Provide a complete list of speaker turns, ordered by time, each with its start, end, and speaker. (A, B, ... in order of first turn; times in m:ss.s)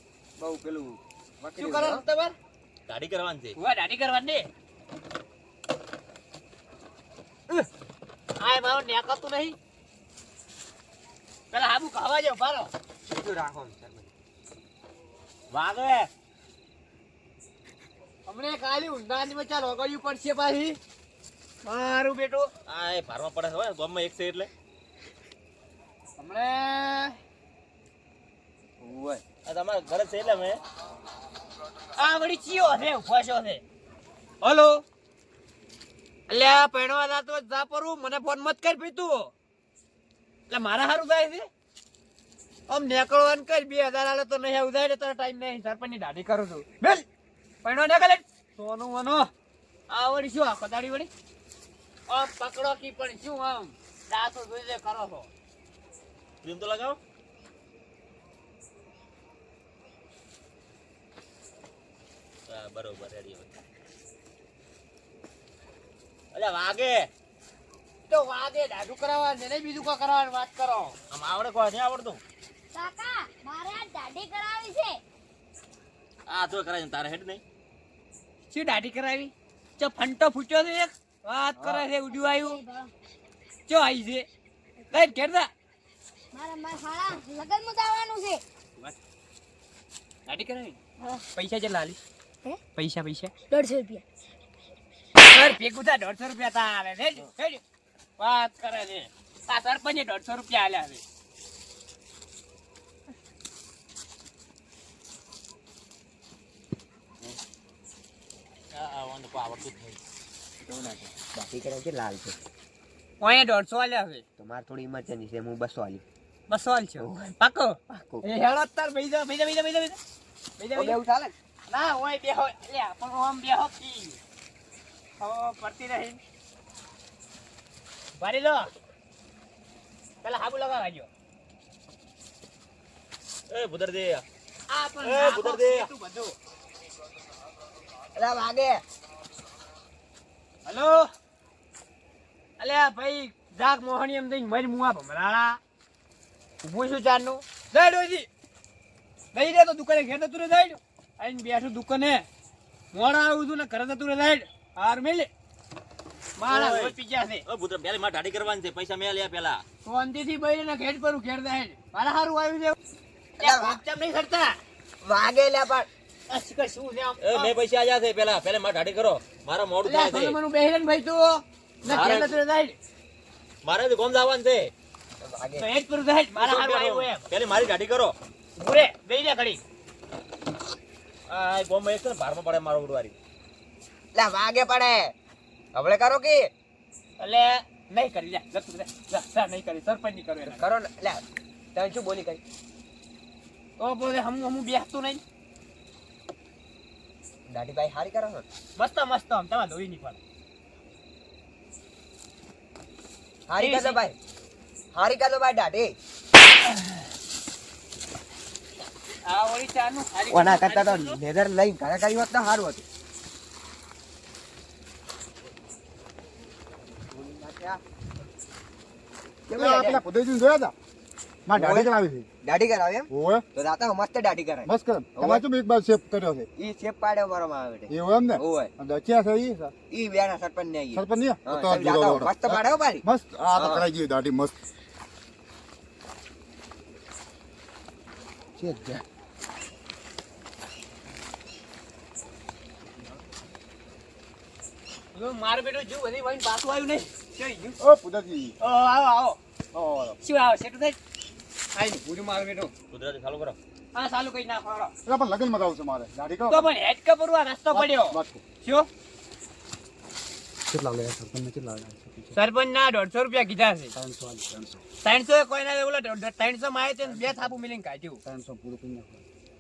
0:00.4-0:02.0 A
0:01.6-0:02.4 B
0:02.9-0:03.6 C
0:03.6-0:04.4 B
0:08.4-0:09.6 B
0:11.5-0:12.7 B
0:13.1-0:14.1 A
0:15.5-0:16.1 C
0:18.3-0:20.8 B
0:21.6-0:22.5 B
0:22.7-0:24.5 C
0:26.2-0:27.2 B
0:28.8-0:29.2 A
0:29.4-0:30.6 C
0:32.0-0:33.6 B
0:34.4-0:34.8 B
0:36.3-0:39.3 B
0:40.5-0:41.5 B
0:42.7-0:47.0 B
0:47.6-0:49.3 B
0:49.9-0:51.1 B
0:52.1-0:55.3 B
0:56.4-0:57.0 C
1:02.5-1:03.6 C
1:06.3-1:07.1 C
1:08.1-1:11.0 B
1:11.1-1:12.2 C
1:12.7-1:15.0 D
1:16.3-1:17.4 C
1:18.5-1:22.6 B
1:22.2-1:22.9 D
1:23.7-1:24.3 B
1:24.9-1:25.5 B
1:26.3-1:28.4 D
1:30.3-1:30.8 B
1:31.3-1:32.0 B
1:32.7-1:33.3 B
1:33.5-1:34.0 D
1:35.2-1:37.6 B
1:38.2-1:41.0 B
1:48.7-1:50.0 C
1:50.6-1:52.4 A
1:53.2-1:54.2 B
1:54.4-1:56.0 A
1:56.5-2:00.0 B
1:57.9-1:58.3 A
2:00.6-2:01.0 B
2:00.7-2:01.4 A
2:01.7-2:04.2 B
2:05.2-2:06.2 B
2:08.2-2:08.7 B
2:10.2-2:11.1 B
2:13.5-2:14.2 C
2:14.7-2:16.4 B
2:15.0-2:15.9 C
2:18.2-2:18.8 A
2:20.7-2:21.0 B
2:22.6-2:25.6 B
2:26.6-2:28.3 B
2:29.3-2:32.2 B
2:32.9-2:35.3 B
2:36.4-2:37.4 B
2:36.5-2:39.6 C
2:39.8-2:42.8 B
2:43.4-2:43.8 A
2:43.4-2:44.6 B
2:45.0-2:45.9 A
2:46.3-2:47.5 B
2:47.2-2:50.4 C
2:49.8-2:52.8 B
2:51.9-2:52.4 C
2:53.6-2:54.7 C
2:55.2-2:55.7 A
2:55.6-2:57.2 B
2:56.4-2:58.2 C
2:58.6-2:59.6 B
3:01.3-3:03.2 C
3:04.2-3:05.1 A
3:05.7-3:06.5 A
3:07.2-3:10.6 B
3:10.4-3:11.2 A
3:11.7-3:12.4 A
3:13.8-3:15.2 B
3:17.5-3:18.4 A
3:18.8-3:20.2 B
3:23.5-3:24.2 A
3:23.6-3:24.0 B
3:24.9-3:26.0 A
3:29.2-3:31.2 B
3:30.3-3:32.8 A
3:37.1-3:37.8 A
3:39.5-3:40.0 A
3:39.6-3:40.7 E
3:41.5-3:42.3 E
3:41.6-3:41.9 A
3:42.4-3:45.4 A
3:43.1-3:43.4 E
3:44.7-3:46.5 E
3:46.6-3:48.7 A
3:47.9-3:49.7 E
3:49.9-3:53.9 A
3:50.9-3:54.6 E
3:58.6-3:59.0 E
4:05.2-4:07.8 B
4:07.8-4:08.6 E
4:08.6-4:09.4 B
4:09.7-4:10.2 E
4:10.2-4:11.0 B
4:11.8-4:12.7 B
4:12.9-4:13.6 C
4:13.9-4:14.9 B
4:15.0-4:16.7 E
4:16.5-4:18.9 B
4:17.7-4:18.4 E
4:20.7-4:22.4 E
4:22.4-4:23.9 B
4:23.9-4:24.8 E
4:25.0-4:28.2 B
4:27.0-4:27.5 E
4:28.2-4:29.2 E